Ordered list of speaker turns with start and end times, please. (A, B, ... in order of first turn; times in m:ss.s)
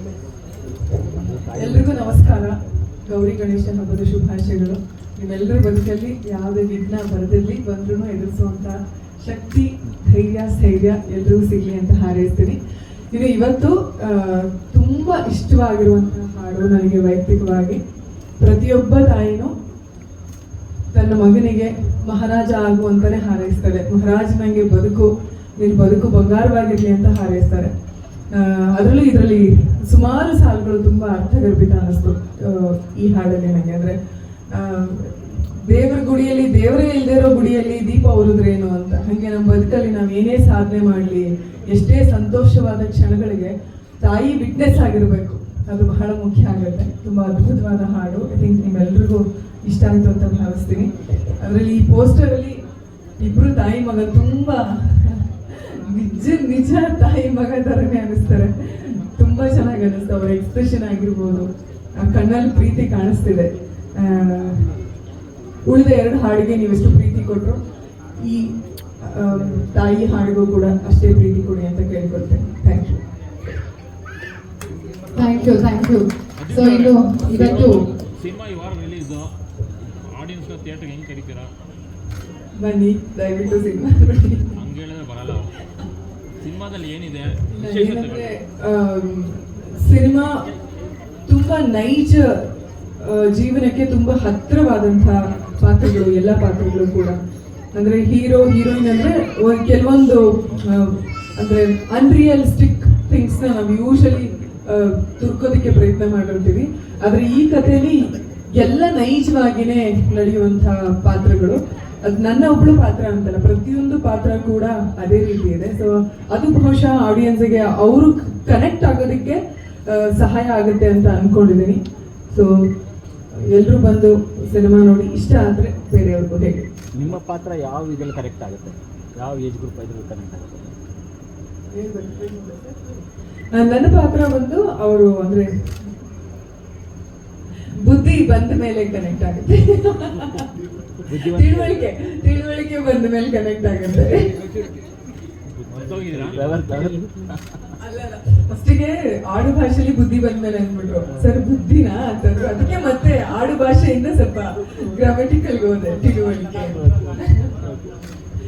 0:00.9-0:02.8 A
0:01.5-0:19.5 B
0:20.9-0:27.8 B
0:28.3-0:34.0 B
0:34.5-0:52.6 B
0:53.2-1:04.8 B
1:05.6-1:07.6 B
1:08.2-1:13.1 B
1:15.1-1:17.8 C
1:16.3-1:19.3 D
1:19.8-1:21.5 D
1:22.5-1:24.6 B
1:24.5-1:25.6 D
1:26.4-1:28.4 D
1:27.5-1:30.4 B
1:31.3-2:02.7 B
2:03.3-2:06.7 B
2:06.9-2:10.8 A
2:11.7-2:15.9 B
2:17.7-2:20.4 B
2:21.1-2:24.4 B
2:21.2-2:21.8 D
2:25.6-2:26.7 D
2:26.3-2:27.3 A
2:27.8-2:37.3 B
2:36.7-2:38.0 A